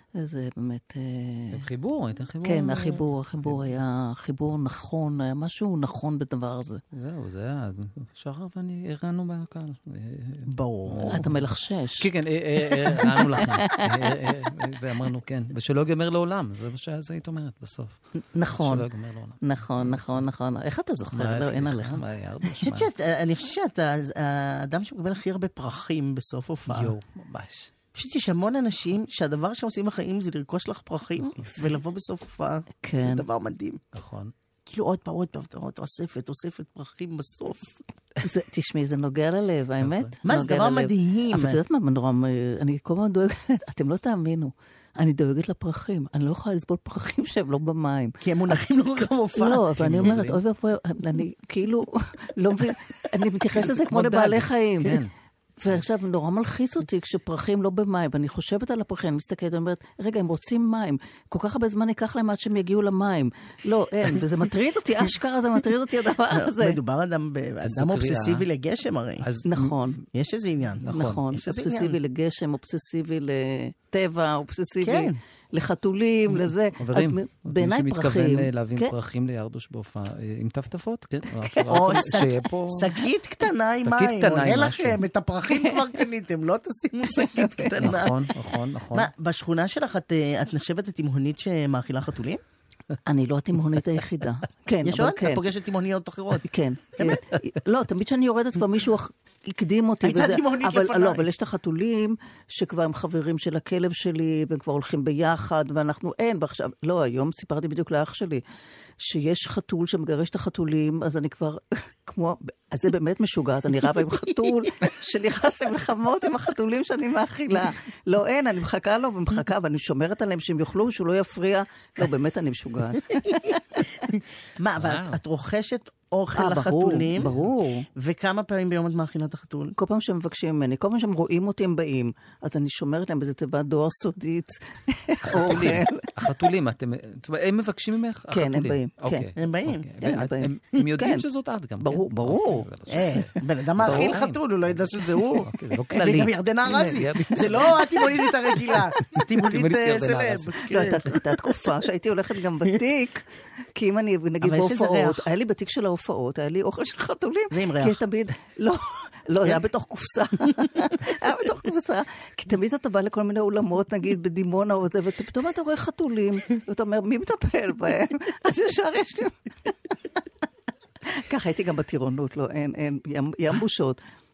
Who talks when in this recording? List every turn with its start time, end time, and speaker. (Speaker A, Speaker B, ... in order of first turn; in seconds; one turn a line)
Speaker A: 0.1-1.7
Speaker B: 1.5-3.8
Speaker A: 2.4-6.8
Speaker B: 6.9-11.4
Speaker C: 10.5-11.2
Speaker A: 11.1-12.1
Speaker B: 12.0-20.2
Speaker A: 12.7-13.9
Speaker A: 18.3-18.9
Speaker A: 19.4-22.0
Speaker B: 21.1-22.9
Speaker C: 22.6-26.9
Speaker B: 26.7-27.7
Speaker C: 27.9-33.8
Speaker A: 32.8-33.2
Speaker B: 33.9-34.3
Speaker C: 34.7-37.8
Speaker A: 38.2-48.6
Speaker B: 39.8-40.1
Speaker C: 40.2-41.6
Speaker C: 48.2-50.1
Speaker A: 49.3-55.1
Speaker B: 49.8-50.4
Speaker B: 53.7-55.1
Speaker A: 55.6-66.8
Speaker C: 66.4-69.2
Speaker B: 67.6-68.4
Speaker B: 69.2-70.0
Speaker A: 69.4-70.0
Speaker C: 70.1-71.9
Speaker B: 70.8-71.2
Speaker A: 70.9-78.9
Speaker C: 74.8-75.2
Speaker B: 76.8-82.9
Speaker A: 81.5-82.1
Speaker C: 81.7-88.1
Speaker B: 83.8-85.0
Speaker A: 87.0-88.1
Speaker B: 87.8-89.1
Speaker C: 88.9-92.4
Speaker A: 93.0-95.4
Speaker C: 94.8-97.2
Speaker A: 96.4-108.4
Speaker C: 100.0-101.2
Speaker A: 109.0-123.6
Speaker C: 123.2-127.4
Speaker B: 124.8-125.2
Speaker A: 126.3-127.9
Speaker C: 128.0-129.7
Speaker A: 129.7-136.3
Speaker B: 135.2-148.0
Speaker A: 138.3-139.3
Speaker C: 139.4-140.2
Speaker A: 140.0-141.2
Speaker A: 141.8-142.7
Speaker C: 142.9-151.2
Speaker A: 143.8-144.2
Speaker B: 149.4-151.1
Speaker A: 150.7-169.9
Speaker C: 154.4-155.2
Speaker C: 157.5-158.0
Speaker A: 171.1-174.0